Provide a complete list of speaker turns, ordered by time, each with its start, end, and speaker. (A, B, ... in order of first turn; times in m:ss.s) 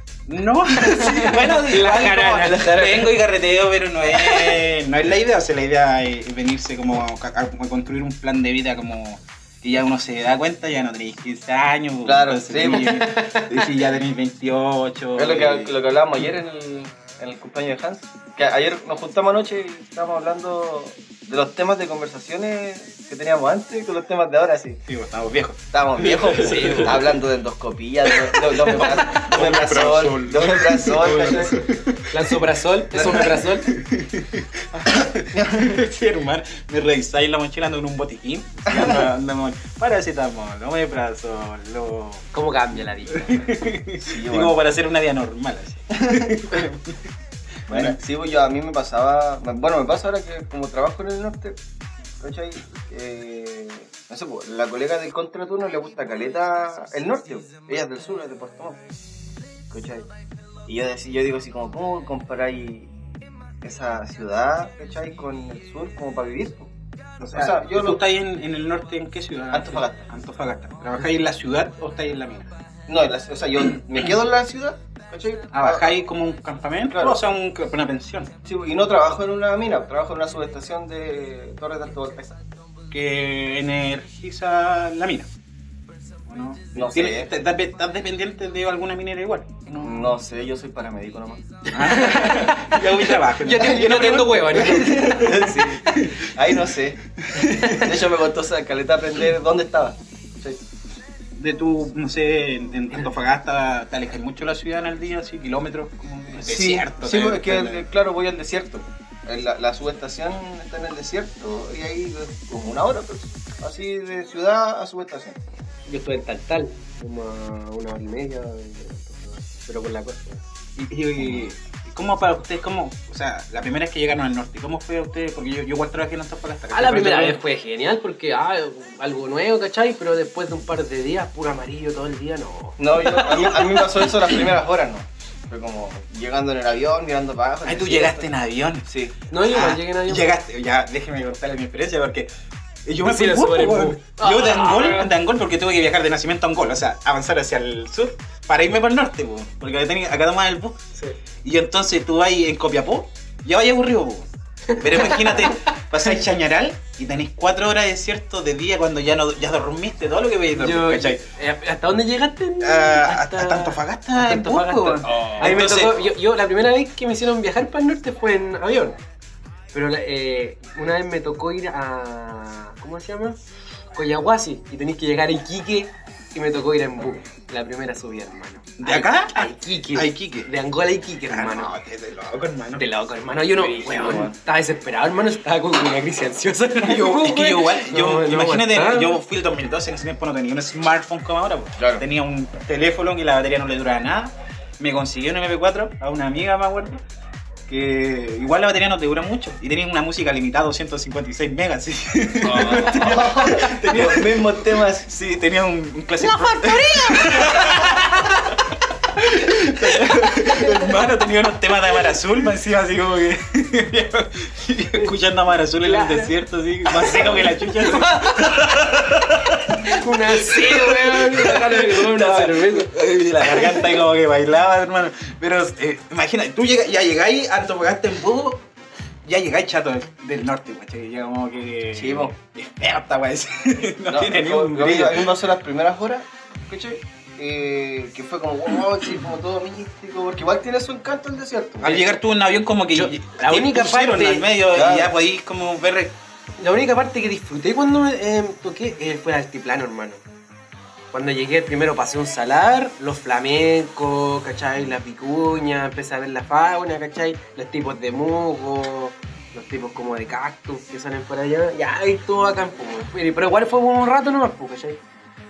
0:00.3-0:15.8 A
0:00.8-0:03.2 B
0:04.2-0:04.6 B
0:12.0-0:13.0 C
0:12.7-0:13.5 B
0:15.2-0:24.8 C
0:24.9-0:27.1 A
0:25.7-0:31.6 C
0:26.3-0:27.1 B
0:28.3-0:32.3 A
0:28.8-0:29.2 B
0:30.9-0:33.7 B
0:32.9-0:33.4 C
0:33.0-0:42.3 A
0:34.8-0:35.8 C
0:38.7-0:39.1 C
0:42.3-0:43.6 B
0:43.1-0:47.0 A
0:44.0-0:44.6 C
0:46.0-0:46.3 C
0:47.7-0:48.0 A
0:47.7-0:51.6 C
0:52.2-0:58.8 C
0:59.7-1:00.1 C
1:00.7-1:02.9 C
1:03.6-1:06.7 C
1:07.2-1:12.6 A
1:07.3-1:08.0 C
1:09.5-1:10.0 C
1:12.9-1:16.0 C
1:15.5-1:18.3 A
1:16.9-1:17.3 C
1:18.4-1:22.4 C
1:22.9-1:25.3 A
1:26.3-1:30.1 A
1:26.7-1:27.3 C
1:29.8-1:31.5 C
1:31.7-1:35.6 B
1:31.7-1:36.4 A
1:34.5-1:37.1 C
1:37.2-1:38.0 A
1:37.6-1:40.6 C
1:41.4-1:47.8 A
1:46.4-1:55.4 C
1:55.9-2:00.4 B
2:00.8-2:07.4 A
2:06.7-2:14.4 B
2:12.8-2:18.3 C
2:17.6-2:18.8 A
2:18.9-2:19.1 C
2:19.3-2:20.3 B
2:19.4-2:22.3 A
2:22.9-2:30.8 A
2:23.0-2:25.1 B
2:31.4-2:41.2 A
2:34.7-2:35.7 B
2:40.5-2:49.0 B
2:42.6-2:46.0 A
2:49.7-2:53.4 B
2:54.0-3:01.7 B
2:58.8-3:00.5 A
3:01.3-3:02.8 A
3:02.8-3:09.2 B
3:03.6-3:04.4 C
3:03.8-3:04.3 A
3:06.8-3:17.0 A
3:11.8-3:12.0 C
3:17.7-3:28.6 A
3:22.4-3:25.1 C
3:26.2-3:28.6 B
3:29.1-3:48.6 A
3:29.8-3:30.9 B
3:35.8-3:36.3 B
3:36.9-3:38.8 B
3:39.7-3:42.9 B
3:43.4-3:43.9 B
3:49.3-3:55.4 A
3:51.9-3:52.3 C
3:54.1-4:02.0 C
4:01.8-4:06.1 A
4:02.9-4:04.5 B
4:04.7-4:05.1 C
4:06.6-4:10.2 B
4:11.1-4:25.0 B